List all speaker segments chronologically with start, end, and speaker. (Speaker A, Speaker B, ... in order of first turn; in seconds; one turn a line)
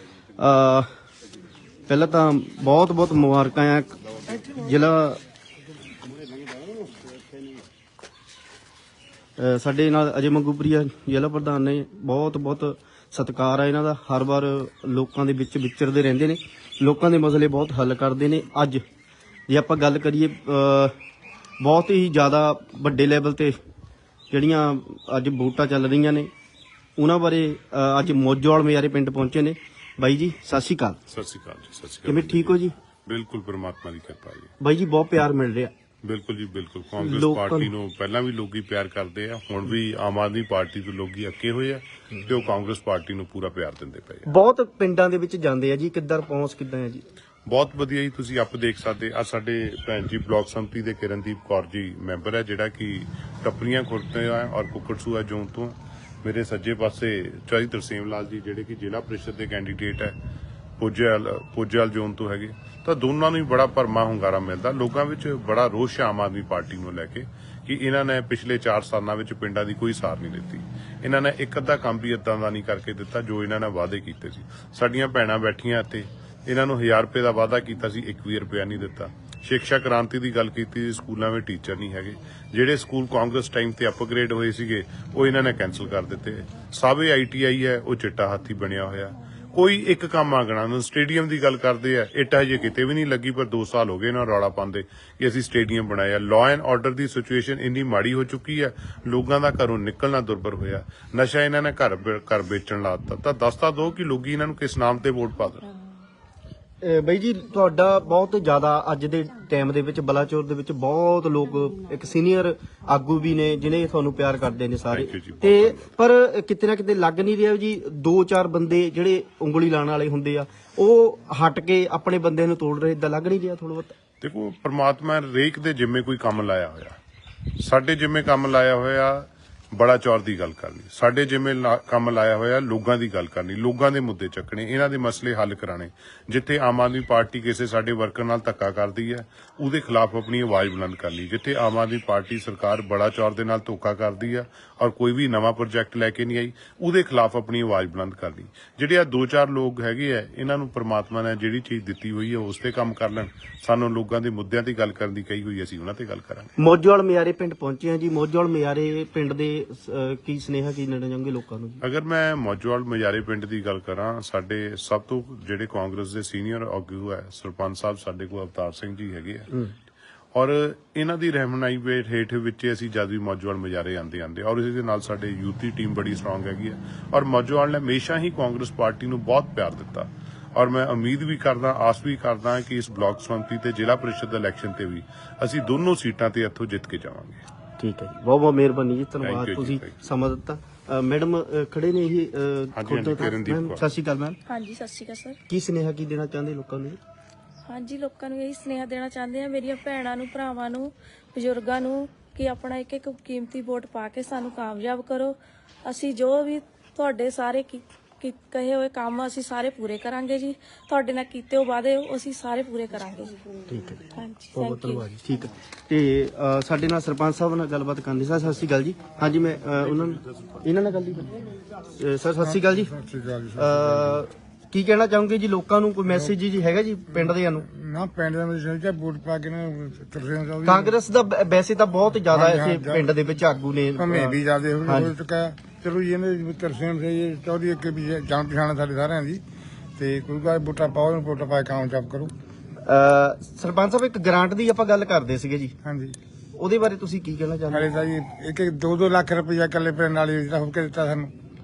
Speaker A: 0.4-0.9
Speaker A: 1.9-5.2
Speaker A: 9.4-18.8
Speaker A: 19.5-20.9
Speaker A: 21.6-23.6
Speaker A: 24.3-26.3
Speaker A: 27.0-31.0
Speaker B: 31.1-34.5
Speaker A: 32.0-32.7
Speaker A: 34.6-35.7
Speaker B: 36.0-44.3
Speaker A: 37.0-37.7
Speaker A: 44.2-47.0
Speaker B: 47.5-60.1
Speaker B: 60.8-105.6
Speaker A: 106.8-123.9
Speaker B: 114.9-115.8
Speaker B: 124.2-127.0
Speaker B: 127.6-156.5
Speaker A: 156.6-161.8
Speaker B: 161.8-169.5
Speaker B: 170.3-187.4
Speaker A: 187.8-194.4
Speaker B: 189.2-190.0
Speaker B: 192.7-193.8
Speaker C: 194.5-195.4
Speaker A: 195.5-197.0
Speaker C: 197.7-213.4
Speaker A: 213.7-222.9
Speaker C: 214.1-215.1
Speaker D: 222.4-224.2
Speaker A: 223.6-227.7
Speaker D: 227.2-230.9
Speaker A: 230.6-235.1
Speaker D: 232.3-233.0
Speaker D: 234.0-239.4
Speaker D: 240.0-242.3
Speaker A: 242.8-245.7
Speaker D: 245.8-246.2
Speaker A: 246.6-247.9
Speaker D: 247.7-251.3